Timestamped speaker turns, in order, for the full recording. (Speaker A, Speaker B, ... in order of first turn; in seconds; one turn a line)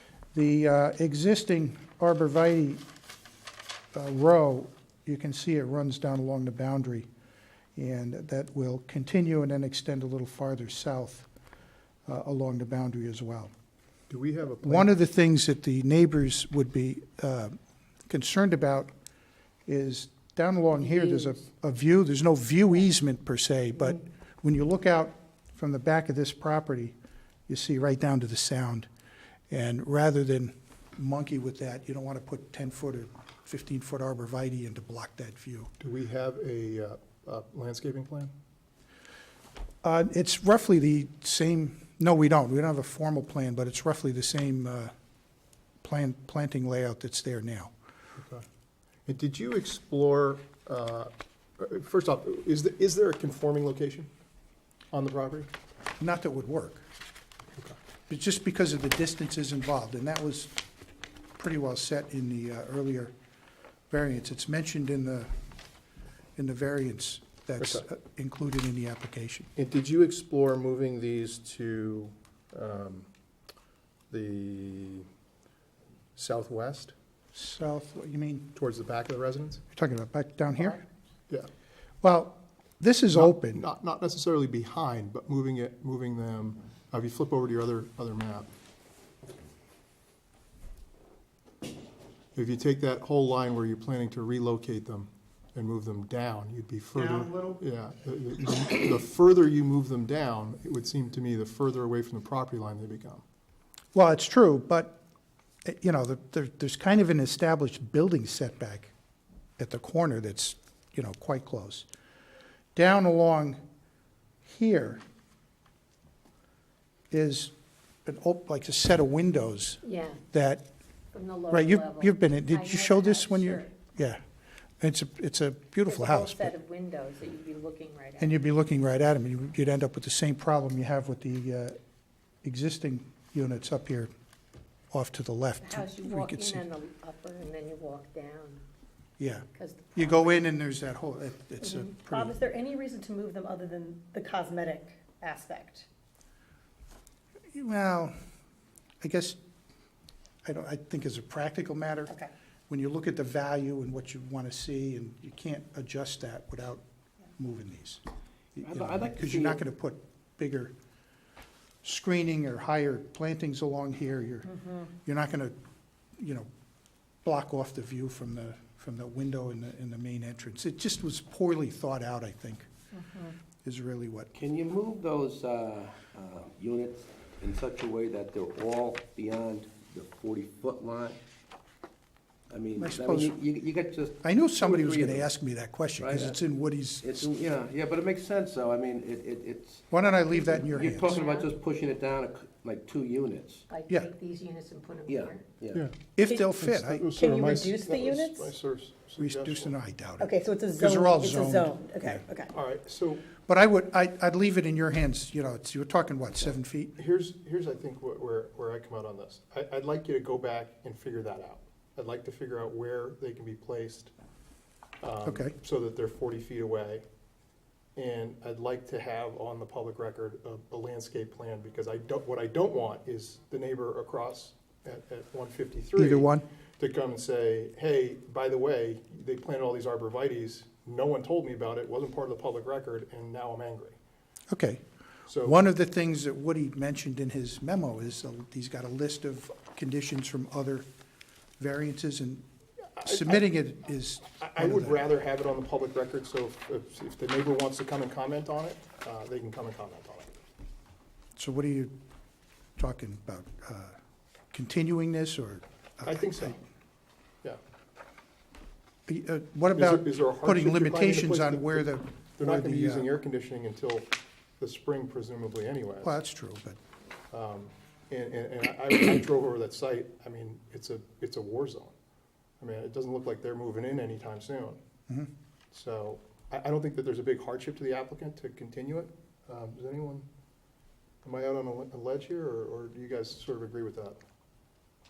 Speaker A: 0.3-2.8
Speaker A: 3.9-7.1
Speaker A: 7.8-11.3
Speaker A: 12.1-13.5
Speaker B: 14.1-15.0
Speaker A: 14.6-18.9
Speaker A: 19.7-26.9
Speaker C: 20.8-21.4
Speaker A: 27.5-28.9
Speaker A: 29.5-35.7
Speaker B: 35.8-38.3
Speaker A: 39.8-44.9
Speaker A: 45.8-47.7
Speaker B: 48.2-48.4
Speaker B: 49.1-54.1
Speaker B: 54.9-55.5
Speaker A: 56.0-56.9
Speaker A: 58.1-60.5
Speaker A: 61.4-63.1
Speaker A: 63.9-65.3
Speaker A: 66.4-69.5
Speaker B: 67.6-67.9
Speaker B: 69.6-73.1
Speaker B: 74.1-75.1
Speaker B: 76.2-76.9
Speaker A: 77.3-78.5
Speaker B: 78.5-79.6
Speaker A: 79.7-80.8
Speaker A: 82.0-83.6
Speaker B: 83.2-88.5
Speaker B: 92.3-103.2
Speaker A: 97.0-97.6
Speaker A: 103.9-105.0
Speaker A: 105.7-108.9
Speaker A: 109.6-111.9
Speaker A: 112.8-113.6
Speaker A: 114.5-115.0
Speaker A: 117.1-117.5
Speaker A: 118.0-120.7
Speaker C: 119.8-120.2
Speaker C: 121.1-123.7
Speaker A: 121.5-124.2
Speaker A: 124.8-126.5
Speaker C: 125.8-128.4
Speaker A: 128.2-131.8
Speaker A: 132.4-134.1
Speaker A: 134.9-136.6
Speaker C: 135.6-138.6
Speaker A: 139.2-142.4
Speaker C: 139.5-140.4
Speaker D: 142.0-145.9
Speaker A: 147.5-148.2
Speaker A: 149.0-149.4
Speaker A: 150.4-152.1
Speaker A: 152.7-156.8
Speaker A: 157.4-158.0
Speaker A: 158.6-160.7
Speaker E: 158.6-159.6
Speaker A: 161.8-165.6
Speaker A: 166.2-166.5
Speaker A: 167.2-172.7
Speaker D: 172.9-173.3
Speaker A: 173.6-174.3
Speaker E: 174.3-181.2
Speaker E: 182.5-185.3
Speaker A: 182.8-183.3
Speaker A: 184.2-187.3
Speaker E: 186.0-186.4
Speaker E: 187.0-193.7
Speaker A: 189.9-191.2
Speaker C: 190.8-191.5
Speaker C: 193.7-195.4
Speaker E: 195.1-195.8
Speaker A: 196.2-197.1
Speaker D: 196.2-198.5
Speaker B: 196.6-199.8
Speaker A: 199.2-202.2
Speaker D: 200.2-202.5
Speaker B: 202.5-203.2
Speaker A: 203.4-207.0
Speaker B: 207.0-214.1
Speaker B: 215.0-217.0
Speaker A: 215.3-215.5
Speaker B: 218.0-234.0
Speaker A: 226.0-226.4
Speaker A: 234.5-234.8
Speaker B: 235.3-235.6
Speaker A: 235.4-240.8
Speaker A: 241.6-242.4
Speaker B: 243.0-243.5
Speaker A: 243.1-245.0
Speaker B: 244.3-250.3
Speaker A: 251.4-251.9
Speaker A: 252.8-254.0
Speaker A: 254.5-256.5
Speaker B: 256.0-256.6
Speaker A: 259.1-263.1
Speaker B: 259.8-266.1
Speaker A: 266.0-266.8
Speaker B: 267.3-271.9
Speaker B: 272.6-274.8
Speaker B: 275.7-280.3
Speaker B: 281.2-284.2